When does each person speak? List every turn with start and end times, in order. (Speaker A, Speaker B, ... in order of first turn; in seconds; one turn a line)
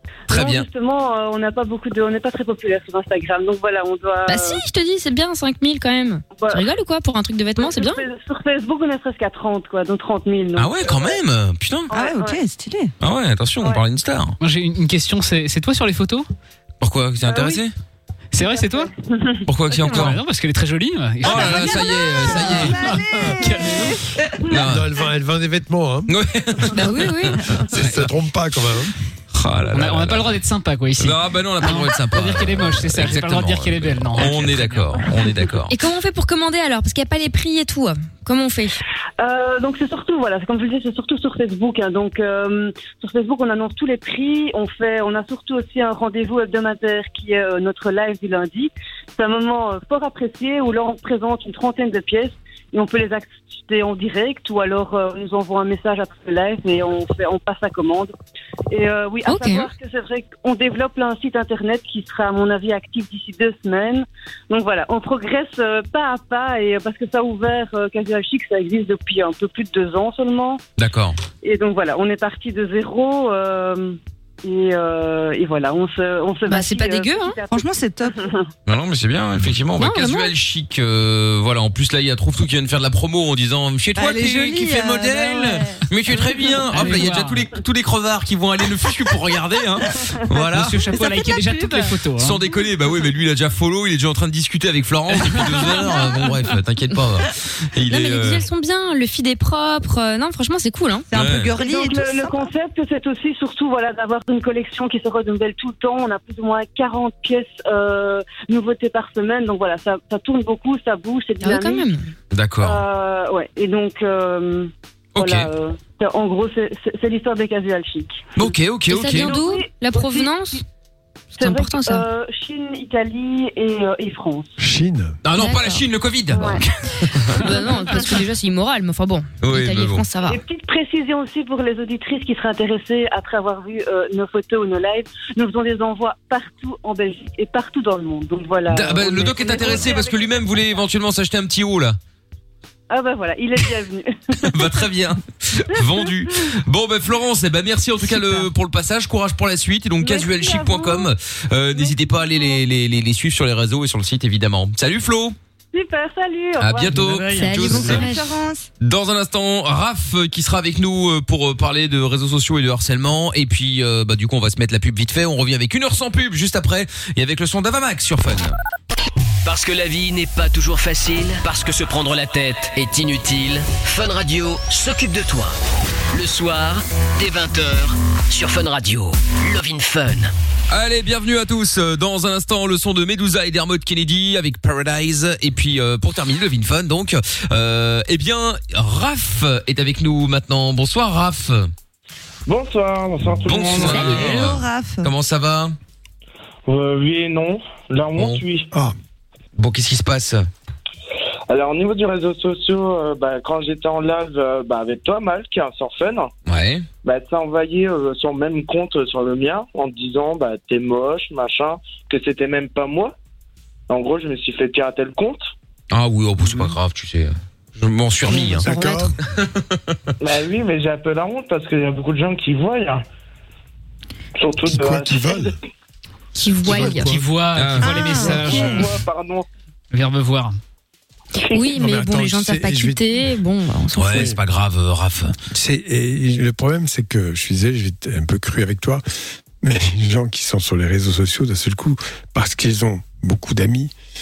Speaker A: 0.3-4.6
Speaker B: 0.3-0.7
Speaker C: 4.3-8.0
Speaker A: 6.3-6.6
Speaker A: 7.6-11.2
Speaker B: 10.6-11.9
Speaker A: 11.9-12.4
Speaker D: 11.9-12.9
Speaker B: 13.0-14.4
Speaker E: 14.4-16.3
Speaker B: 16.8-17.7
Speaker A: 17.3-17.6
Speaker E: 18.3-18.9
Speaker A: 18.4-19.9
Speaker B: 19.5-20.2
Speaker E: 19.8-24.0
Speaker B: 21.2-22.8
Speaker D: 21.2-24.0
Speaker B: 24.4-24.9
Speaker F: 24.6-26.1
Speaker B: 26.1-28.1
Speaker C: 26.7-27.4
Speaker F: 27.7-28.9
Speaker B: 29.3-30.4
Speaker E: 29.7-35.4
Speaker B: 31.0-35.7
Speaker C: 35.7-38.8
Speaker A: 39.2-58.1
Speaker A: 58.7-70.6
Speaker C: 59.2-59.7
Speaker B: 70.8-71.2
Speaker A: 71.4-77.6
Speaker C: 76.5-77.4
Speaker D: 77.5-78.3
Speaker A: 78.1-78.4
Speaker B: 78.7-90.9
Speaker C: 79.8-80.3
Speaker D: 84.0-86.6
Speaker E: 86.7-87.5
Speaker E: 90.5-92.4
Speaker D: 90.9-91.9
Speaker B: 92.2-98.5
Speaker C: 97.9-101.1
Speaker D: 101.1-102.5
Speaker B: 101.1-101.5
Speaker A: 101.6-111.9
Speaker C: 111.4-112.0
Speaker B: 112.3-112.8
Speaker A: 112.6-118.5
Speaker B: 115.1-115.5
Speaker B: 118.3-119.3
Speaker C: 118.9-120.6
Speaker A: 119.1-120.3
Speaker A: 121.4-124.5
Speaker C: 121.4-122.0
Speaker F: 124.6-125.2
Speaker B: 125.2-127.4
Speaker C: 125.4-126.6
Speaker C: 127.3-130.4
Speaker B: 129.4-130.1
Speaker A: 130.3-140.8
Speaker B: 138.7-142.0
Speaker A: 142.9-144.7
Speaker B: 144.4-155.3
Speaker A: 145.7-146.1
Speaker A: 150.0-151.1
Speaker A: 151.7-152.6
Speaker A: 155.7-156.9
Speaker B: 156.6-158.1
Speaker E: 156.8-158.0
Speaker C: 157.3-158.3
Speaker D: 157.8-158.7
Speaker B: 158.8-168.6
Speaker G: 169.4-175.5
Speaker G: 176.1-180.3
Speaker B: 180.7-191.7
Speaker H: 192.5-194.2
Speaker B: 193.4-195.8
Speaker D: 193.7-195.1
Speaker C: 193.8-194.3
Speaker H: 196.7-198.7
Speaker B: 198.2-198.4
Speaker B: 199.6-200.5
Speaker H: 201.5-206.3
Speaker B: 206.5-206.9
Speaker H: 207.0-213.1
Speaker H: 213.9-215.5
Speaker B: 215.9-218.7
Speaker F: 216.4-216.8
Speaker C: 218.3-219.1
Speaker F: 218.3-219.1
Speaker B: 219.3-219.9
Speaker H: 220.2-223.0
Speaker H: 224.3-225.6
Speaker F: 224.6-225.5
Speaker C: 226.3-227.1
Speaker F: 226.5-227.3
Speaker E: 226.6-229.0
Speaker B: 227.5-228.8
Speaker D: 227.8-228.8
Speaker H: 228.5-229.4
Speaker E: 229.9-230.6
Speaker C: 231.5-234.3
Speaker F: 231.6-233.0
Speaker B: 233.9-235.3
Speaker F: 235.5-239.0
Speaker F: 239.6-243.9